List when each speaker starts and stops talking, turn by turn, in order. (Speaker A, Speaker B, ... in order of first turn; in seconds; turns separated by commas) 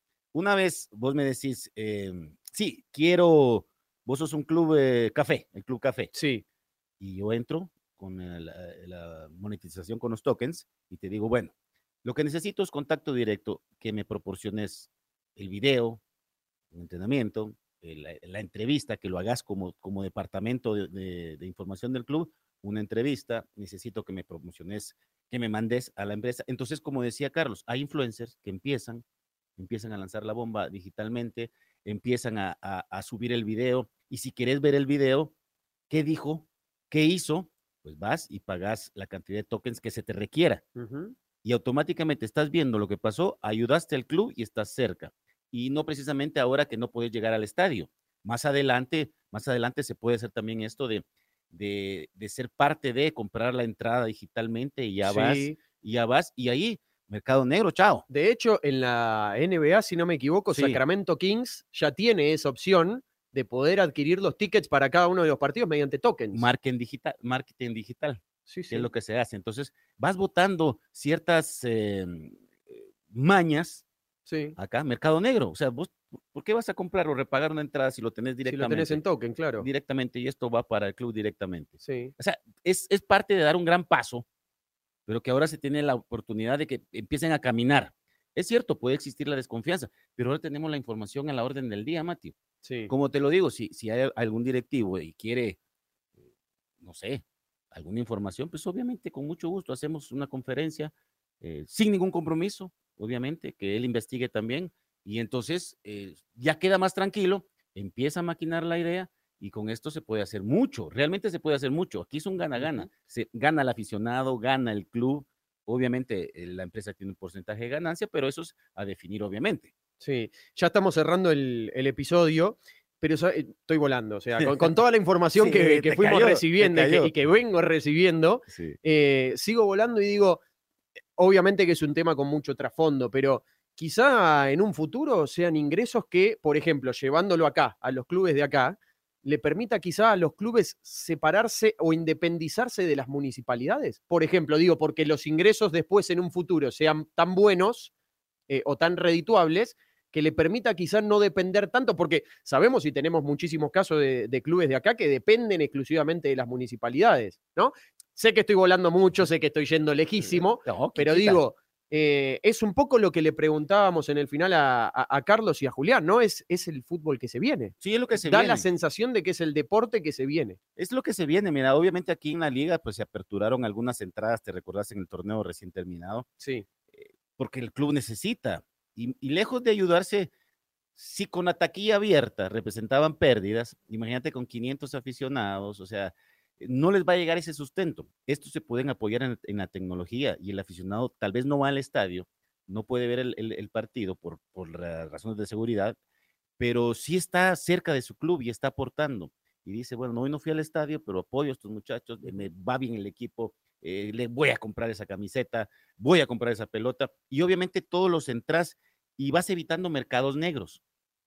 Speaker A: 0.3-6.1, Speaker B: 6.1-6.4, Speaker A: 7.0-11.5, Speaker A: 12.0-16.0, Speaker A: 16.7-29.0, Speaker A: 29.6-35.3, Speaker A: 35.9-40.6, Speaker B: 40.8-41.1, Speaker A: 41.4-58.0, Speaker B: 55.0-55.6, Speaker B: 58.1-66.5, Speaker A: 60.5-60.8, Speaker A: 66.3-73.8, Speaker B: 68.5-68.9, Speaker B: 74.3-74.5, Speaker A: 74.6-79.0, Speaker B: 78.5-79.7, Speaker A: 79.6-84.2, Speaker B: 81.8-82.1, Speaker A: 85.1-92.3, Speaker B: 92.6-92.9, Speaker A: 92.9-95.6, Speaker A: 96.8-119.7, Speaker B: 112.6-112.8, Speaker B: 120.0-130.4, Speaker A: 125.3-127.1, Speaker B: 131.2-147.9, Speaker B: 148.5-170.6, Speaker A: 160.2-161.4, Speaker A: 167.8-168.7, Speaker A: 170.8-176.2, Speaker B: 176.4-176.7, Speaker A: 176.9-180.3, Speaker A: 180.9-196.0, Speaker A: 196.6-210.8